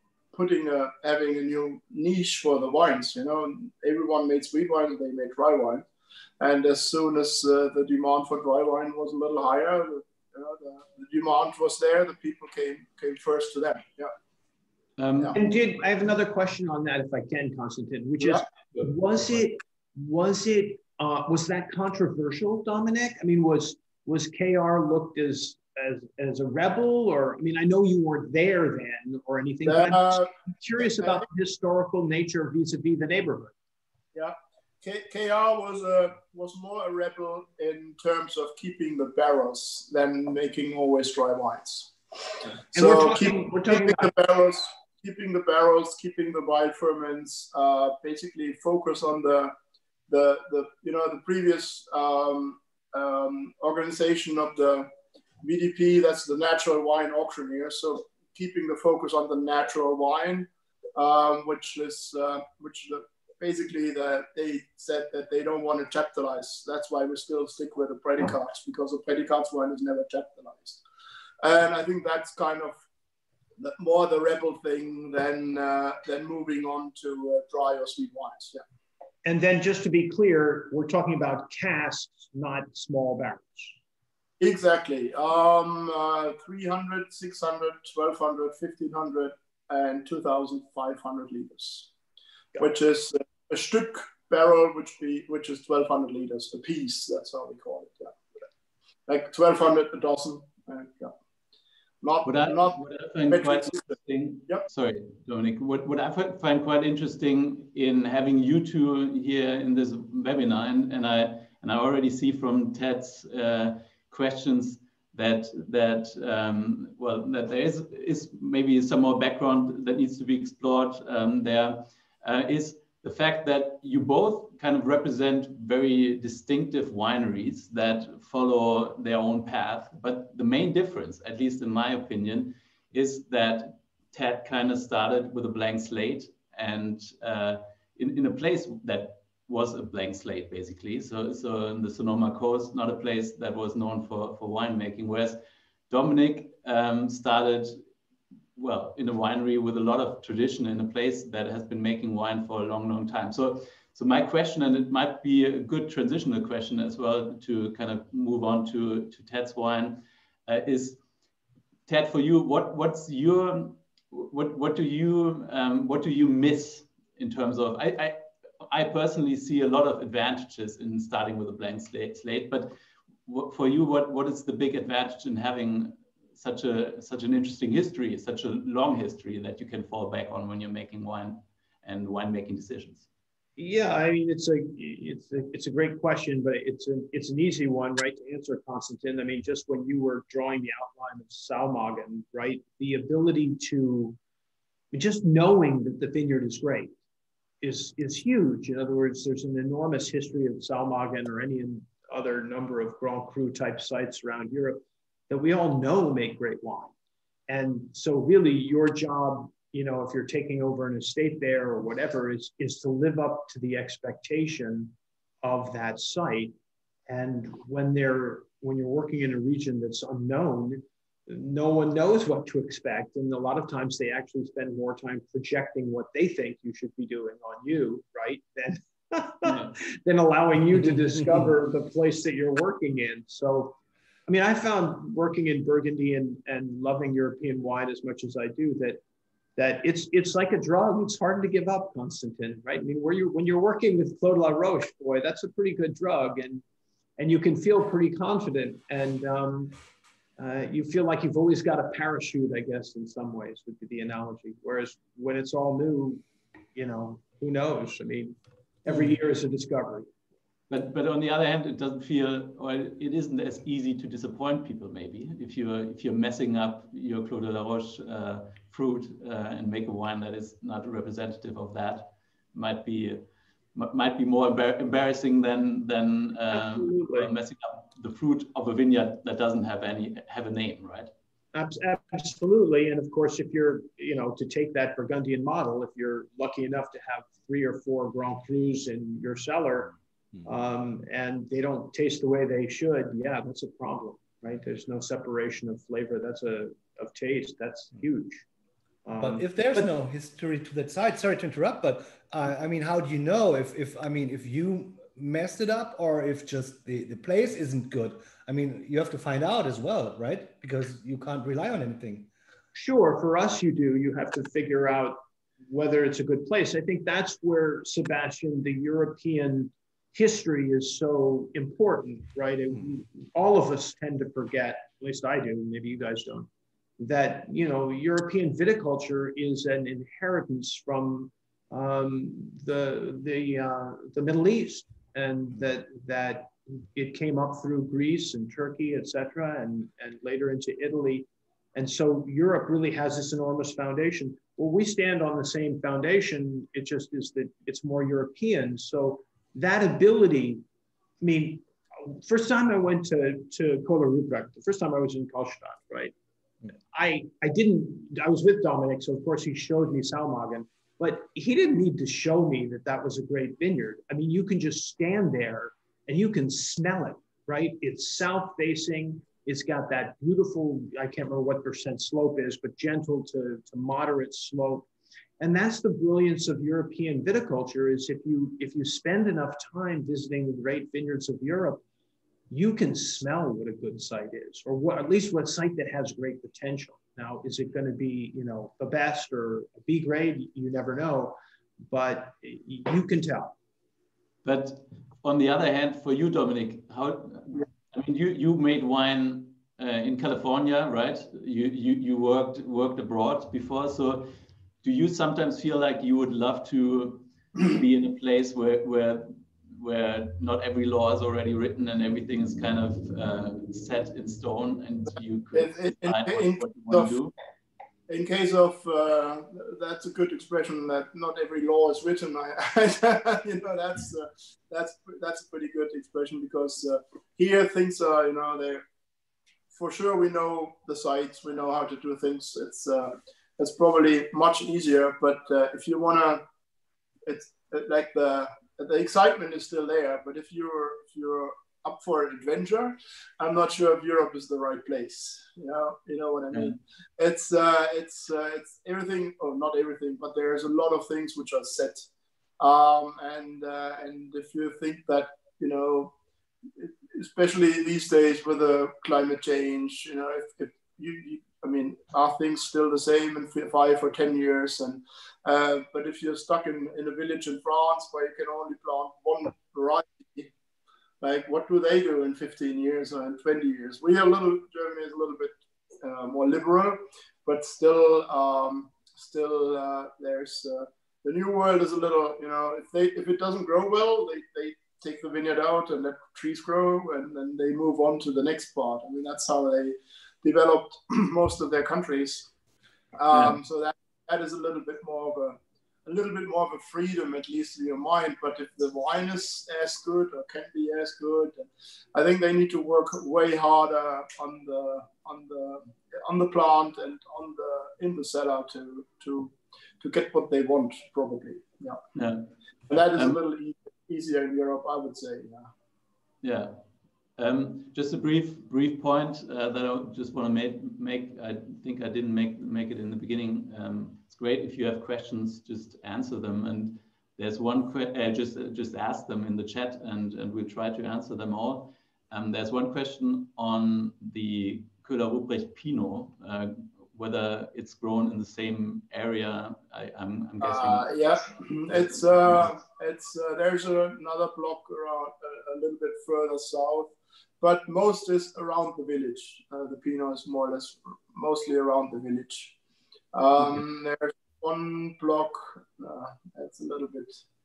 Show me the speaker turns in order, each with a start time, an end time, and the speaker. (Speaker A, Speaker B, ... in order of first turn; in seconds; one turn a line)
Speaker A: 0.3-5.8
Speaker A: 6.4-14.1
Speaker B: 15.0-15.4
Speaker C: 15.3-33.5
Speaker A: 29.6-31.2
Speaker A: 34.1-49.5
Speaker C: 42.7-44.1
Speaker A: 50.1-54.9
Speaker A: 55.4-70.8
Speaker A: 71.4-72.8
Speaker A: 73.6-78.6
Speaker C: 79.2-83.7
Speaker A: 84.4-91.9
Speaker A: 92.6-98.2
Speaker A: 99.1-101.1
Speaker A: 102.0-103.9
Speaker B: 102.2-147.8
Speaker B: 148.6-161.0
Speaker B: 161.9-172.7
Speaker B: 173.2-183.1
Speaker C: 183.6-194.2
Speaker C: 194.9-196.9
Speaker C: 197.6-206.9
Speaker C: 207.5-216.5
Speaker C: 217.1-239.0
Speaker B: 229.4-229.7
Speaker C: 239.6-246.6
Speaker C: 247.2-249.8
Speaker C: 250.4-256.2
Speaker C: 256.7-258.3
Speaker C: 258.9-260.1
Speaker B: 260.7-281.1
Speaker C: 276.5-277.3
Speaker C: 281.5-298.4
Speaker C: 299.0-299.8
Speaker D: 299.2-312.3
Speaker C: 312.7-350.6
Speaker C: 351.2-356.1
Speaker C: 356.9-374.9
Speaker C: 375.4-381.8
Speaker C: 382.5-393.5
Speaker B: 394.4-404.3
Speaker B: 404.8-417.3
Speaker A: 415.5-417.1
Speaker A: 418.1-428.8
Speaker A: 429.7-436.4
Speaker A: 437.2-452.1
Speaker B: 446.5-446.8
Speaker A: 452.6-456.1
Speaker A: 456.8-470.5
Speaker A: 471.2-492.5
Speaker A: 493.2-512.0
Speaker B: 512.1-513.4
Speaker A: 512.9-515.7
Speaker B: 516.4-516.8
Speaker B: 517.4-541.1
Speaker A: 540.6-552.8
Speaker A: 553.3-557.4